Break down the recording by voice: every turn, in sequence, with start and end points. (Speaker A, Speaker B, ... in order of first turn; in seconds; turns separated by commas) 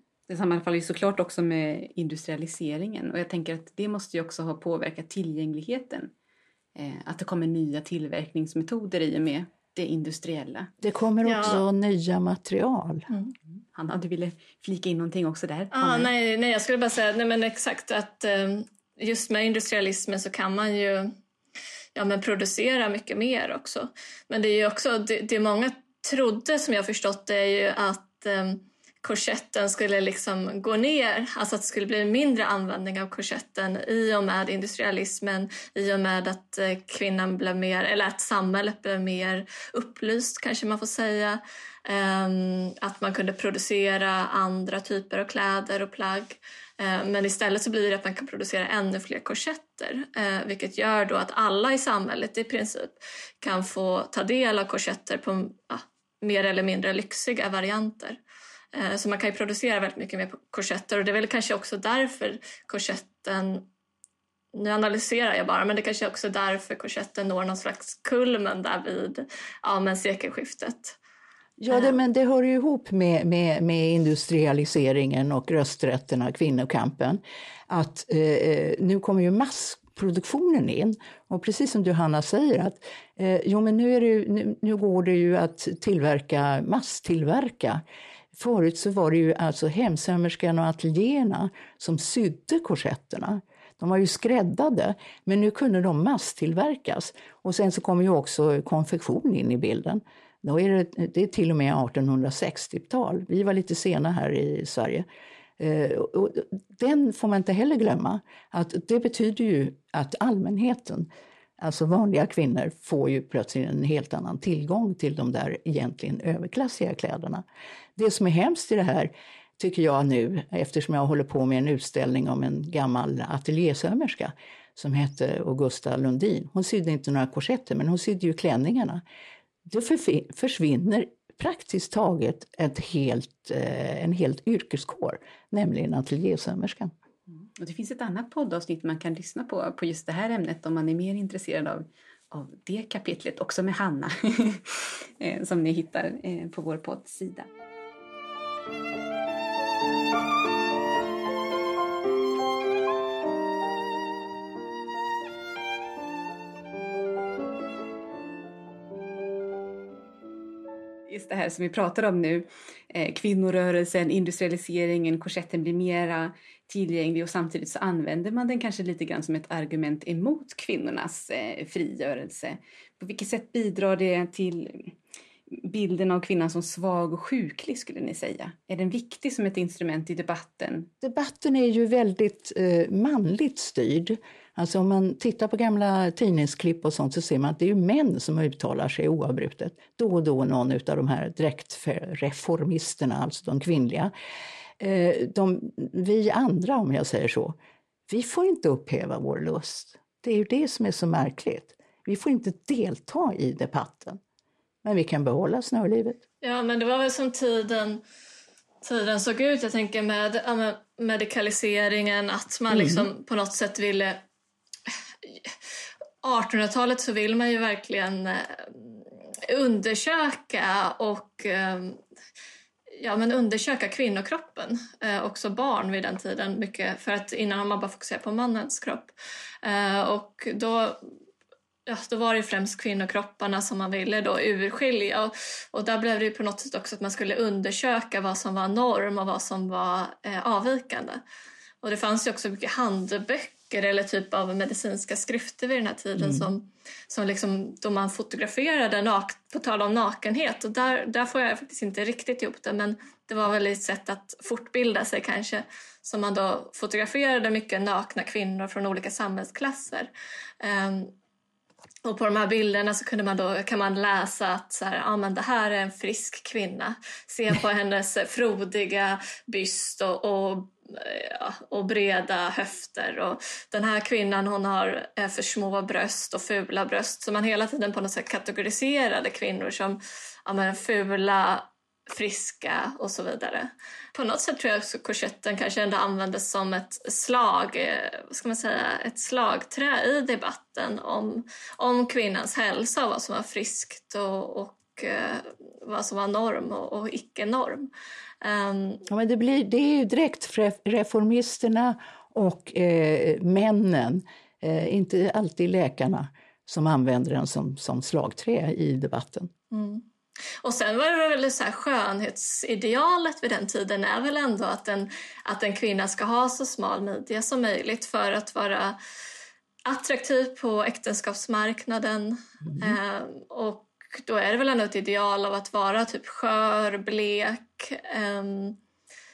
Speaker A: 0.3-6.1, Speaker A: 6.7-10.7, Speaker B: 10.8-13.1, Speaker C: 11.2-11.6, Speaker A: 13.7-16.1, Speaker C: 15.7-21.1, Speaker C: 21.9-58.2, Speaker C: 58.7-63.7, Speaker C: 64.5-71.0, Speaker B: 71.6-87.8, Speaker C: 71.7-72.0, Speaker B: 88.3-105.0, Speaker B: 105.6-111.1, Speaker B: 111.6-117.4, Speaker B: 118.0-129.0, Speaker B: 129.7-136.9, Speaker A: 137.4-147.5, Speaker A: 161.1-174.9, Speaker A: 175.5-180.9, Speaker B: 181.0-194.1, Speaker B: 194.8-197.5, Speaker B: 198.1-204.2, Speaker B: 204.8-206.2, Speaker C: 206.4-208.0, Speaker C: 208.8-214.2, Speaker B: 212.7-213.1, Speaker C: 215.2-215.5, Speaker C: 216.2-222.0, Speaker C: 223.0-231.0, Speaker C: 231.9-241.2, Speaker C: 241.8-261.1, Speaker B: 246.2-246.5, Speaker C: 262.0-297.9, Speaker C: 298.4-299.0, Speaker B: 299.1-309.5, Speaker C: 309.7-310.0, Speaker C: 310.6-319.0, Speaker C: 319.8-328.8